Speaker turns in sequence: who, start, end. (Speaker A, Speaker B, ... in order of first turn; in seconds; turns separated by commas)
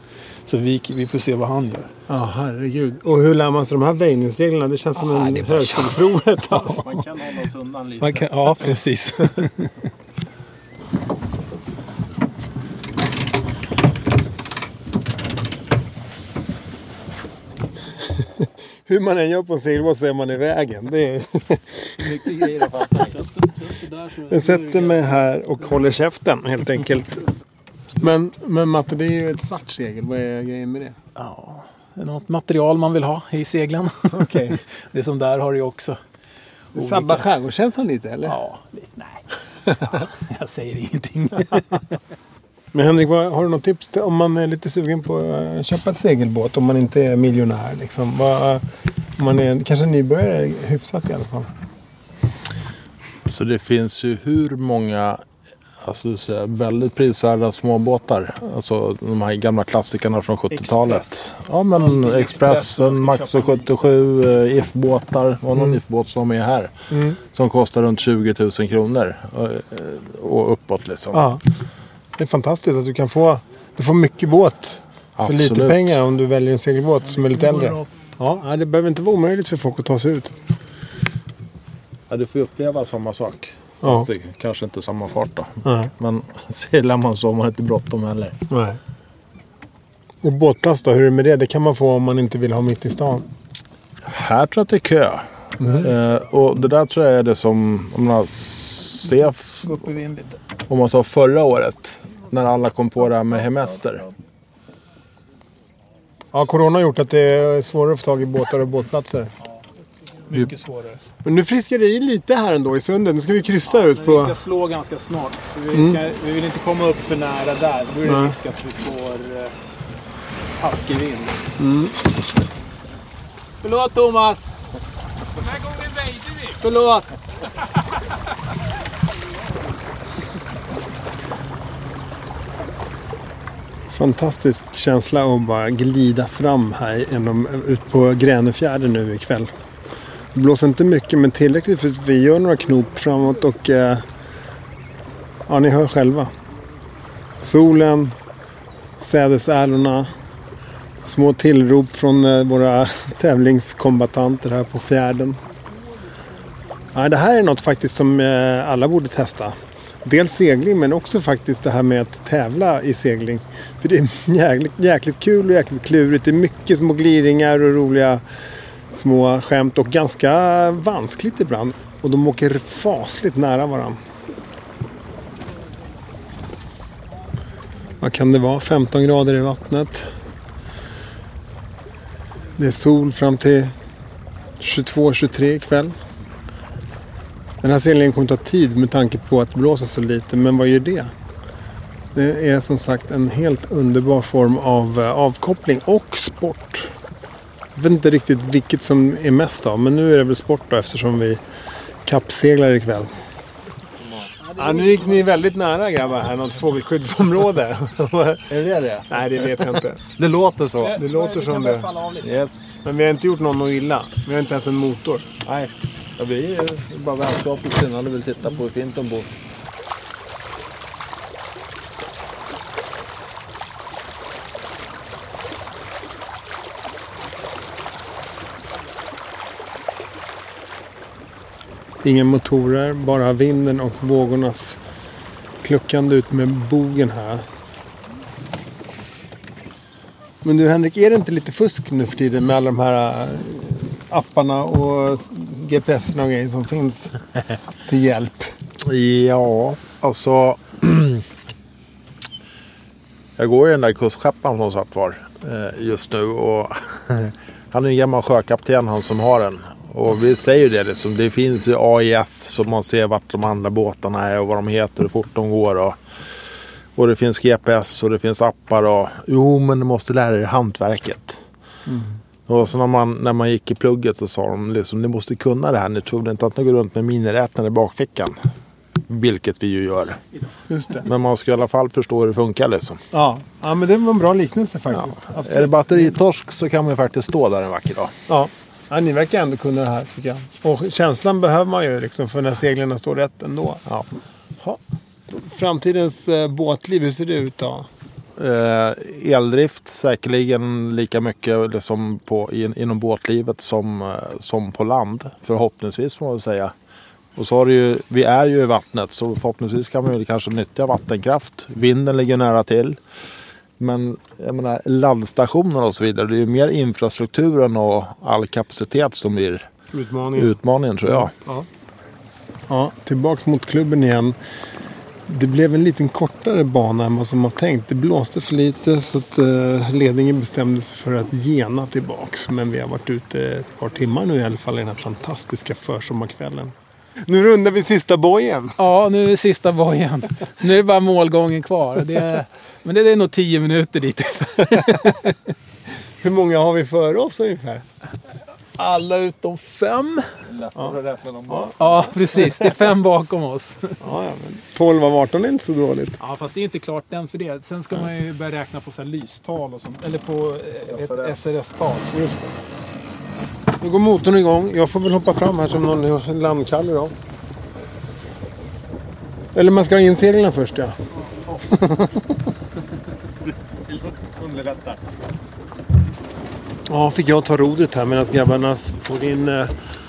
Speaker A: 0.5-1.9, Speaker B: 2.1-6.9, Speaker C: 6.5-8.3, Speaker A: 8.0-9.7, Speaker B: 18.9-22.2, Speaker C: 22.1-23.1, Speaker A: 22.1-25.1, Speaker B: 24.3-27.2, Speaker B: 28.0-31.0, Speaker A: 31.2-34.4, Speaker B: 34.1-34.6, Speaker A: 34.9-36.0, Speaker A: 36.8-37.3, Speaker B: 36.8-38.4, Speaker A: 38.3-41.9, Speaker B: 42.7-48.6, Speaker B: 49.2-51.5, Speaker C: 53.3-55.2, Speaker C: 55.8-71.3, Speaker A: 60.5-61.2, Speaker A: 61.8-63.7, Speaker B: 66.9-67.2, Speaker B: 71.1-71.4, Speaker B: 72.2-80.3, Speaker C: 75.2-76.0, Speaker A: 77.3-77.8, Speaker C: 82.1-88.4, Speaker B: 83.8-84.1, Speaker B: 85.7-85.9, Speaker B: 88.5-88.8, Speaker B: 90.2-93.3, Speaker C: 94.0-99.7, Speaker B: 95.6-95.9, Speaker A: 99.6-100.4, Speaker C: 100.7-104.1, Speaker B: 106.3-109.3, Speaker A: 110.3-111.1, Speaker B: 111.2-114.3, Speaker A: 113.7-119.5, Speaker B: 115.7-116.0, Speaker B: 118.0-118.3, Speaker A: 120.6-121.4, Speaker B: 121.6-122.0, Speaker A: 123.6-124.5, Speaker A: 125.4-127.1, Speaker B: 133.9-139.5, Speaker B: 140.3-144.0, Speaker B: 145.5-146.3, Speaker B: 147.4-148.2, Speaker B: 149.0-150.1, Speaker B: 151.0-155.4, Speaker B: 156.9-168.2, Speaker B: 168.9-174.0, Speaker B: 178.0-180.1, Speaker B: 182.6-183.7, Speaker B: 184.6-185.9, Speaker B: 187.6-191.1, Speaker B: 192.2-196.9, Speaker B: 197.8-201.4, Speaker B: 202.1-203.1, Speaker A: 204.4-205.4, Speaker B: 204.6-208.5, Speaker C: 208.5-209.6, Speaker B: 209.1-210.0, Speaker C: 210.2-211.0, Speaker A: 210.8-212.4, Speaker B: 210.9-211.9, Speaker C: 212.2-212.8, Speaker B: 212.8-215.3, Speaker C: 215.4-219.3, Speaker B: 232.0-234.8, Speaker B: 235.6-237.4, Speaker B: 240.4-247.2, Speaker B: 247.8-248.5, Speaker C: 248.8-251.2, Speaker C: 253.4-266.0, Speaker C: 267.0-271.4, Speaker C: 272.5-278.4, Speaker C: 279.1-280.2, Speaker B: 280.7-281.1, Speaker C: 281.0-283.0, Speaker B: 283.1-286.1, Speaker C: 285.4-288.1, Speaker B: 288.3-293.8, Speaker B: 295.3-297.9, Speaker C: 298.4-306.7, Speaker C: 307.4-313.0, Speaker C: 313.8-319.7, Speaker B: 319.9-320.6, Speaker C: 320.3-321.3, Speaker B: 321.1-321.7, Speaker B: 322.7-324.4, Speaker B: 325.3-336.7, Speaker B: 337.3-338.7, Speaker A: 338.8-345.4, Speaker B: 346.2-347.8, Speaker A: 348.8-350.3, Speaker C: 350.5-352.1, Speaker A: 351.8-354.0, Speaker B: 354.0-356.2, Speaker A: 356.2-362.5, Speaker C: 360.9-361.6, Speaker B: 363.8-367.1, Speaker B: 369.6-370.9, Speaker B: 371.6-372.3, Speaker C: 373.9-375.0, Speaker B: 376.9-379.7